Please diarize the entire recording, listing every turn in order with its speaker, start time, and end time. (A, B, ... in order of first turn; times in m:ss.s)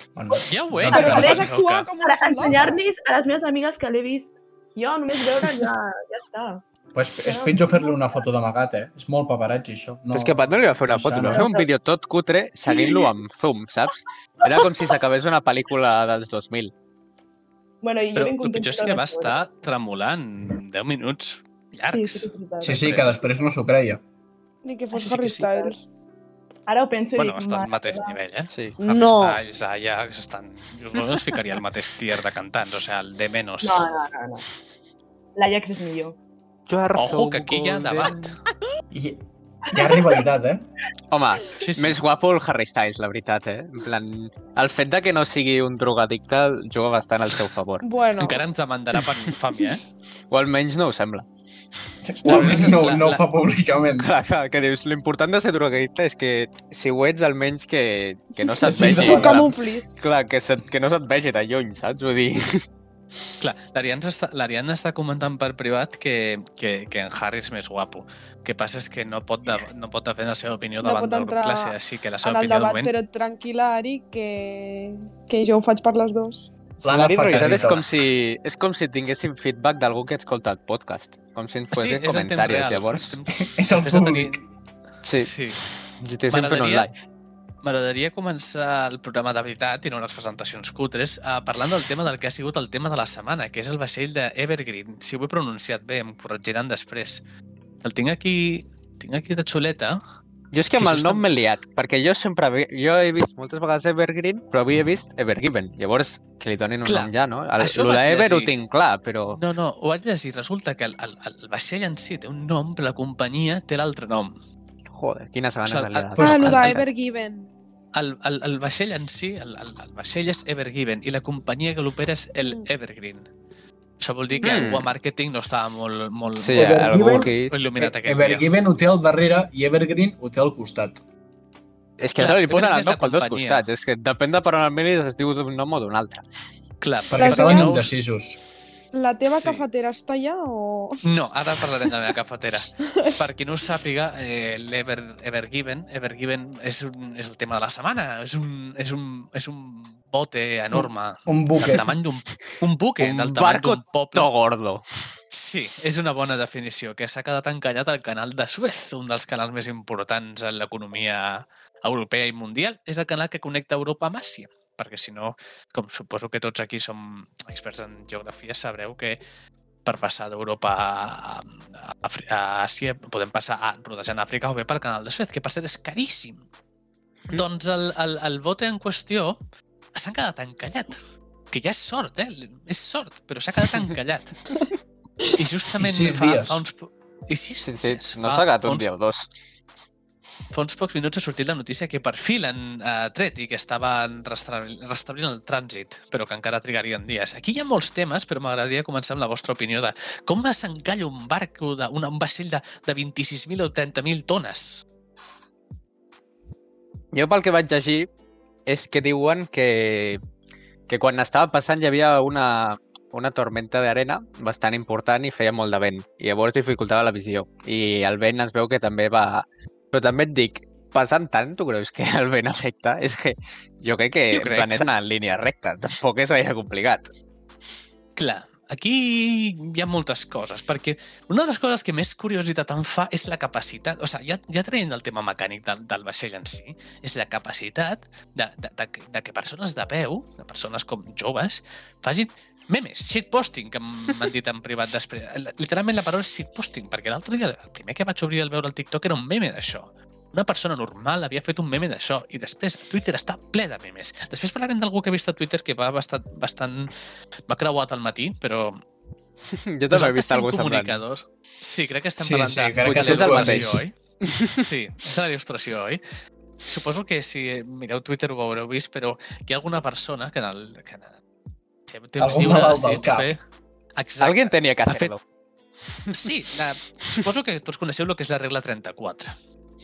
0:00.2-0:01.5 A
0:00.5-0:01.9 B
0:00.9-0:06.6 C
0:00.9-0:02.7 D
0:06.9-0:11.4 A
0:07.2-0:08.0 C
0:10.1-0:16.7 E
0:11.3-0:11.7 C
0:12.7-0:13.1 C
0:14.5-0:14.9 C
0:17.8-0:19.4 C
0:18.1-0:23.2 B
0:21.9-0:23.0 C
0:22.6-0:24.0 A
0:24.6-0:25.8 D
0:24.9-0:25.5 B
0:26.7-0:28.2 C
0:27.2-0:33.8 B
0:28.5-0:28.8 E
0:28.8-0:29.4 D
0:33.6-0:34.5 C
0:35.4-0:36.2 C
0:36.7-0:38.3 E
0:36.9-0:38.4 B
0:38.9-0:40.6 A
0:39.7-0:40.2 C
0:41.1-0:47.8 E
0:41.6-0:42.0 B
0:47.8-0:48.5 D
0:48.2-0:49.8 B
0:50.3-0:51.2 E
0:52.0-0:54.1 A
0:52.2-0:53.2 B
0:54.0-1:02.6 E
0:58.5-1:00.0 D
0:58.6-0:59.5 A
1:03.4-1:12.9 B
1:10.8-1:16.5 D
1:16.8-1:23.2 E
1:16.8-1:17.9 A
1:17.3-1:17.8 B
1:21.7-1:24.4 B
1:23.4-1:24.4 A
1:25.0-1:27.0 E
1:25.2-1:25.6 B
1:26.3-1:26.9 B
1:27.6-1:37.2 B
1:37.8-1:40.0 B
1:40.5-1:49.4 E
1:40.8-1:41.2 B
1:46.8-1:48.5 B
1:49.4-1:54.4 B
1:54.9-1:56.8 E
1:55.6-1:56.8 B
1:56.2-1:57.5 D
1:57.9-2:03.3 B
2:04.0-2:08.5 B
2:04.4-2:04.9 E
2:06.4-2:07.5 E
2:06.5-2:11.0 A
2:12.0-2:16.2 E
2:12.2-2:13.6 B
2:16.8-2:17.9 B
2:17.1-2:18.4 A
2:17.2-2:17.9 D
2:18.9-2:21.0 D
2:19.2-2:19.6 B
2:21.0-2:34.3 B
2:22.8-2:23.2 D
2:30.7-2:31.9 A
2:33.0-2:34.9 E
2:35.3-2:49.2 B
2:49.8-2:56.4 B
2:57.3-2:59.4 B
3:00.0-3:01.0 B
3:01.5-3:04.4 B
3:05.3-3:08.9 B
3:05.8-3:06.6 A
3:07.6-3:09.3 E
3:10.5-3:24.8 B
3:27.1-3:28.1 E
3:28.7-3:30.2 E
3:30.9-3:47.1 E
3:44.3-3:44.9 B
3:48.2-4:16.9 B
4:17.5-4:18.8 B
4:19.4-4:21.0 E
4:19.9-4:24.0 B
4:22.2-4:23.8 A
4:22.8-4:24.6 E
4:24.5-4:26.0 B
4:26.6-4:31.2 B
4:31.9-4:33.4 B
4:32.2-4:33.3 A
4:34.0-4:35.2 B
4:34.2-4:35.2 E
4:36.1-4:39.3 B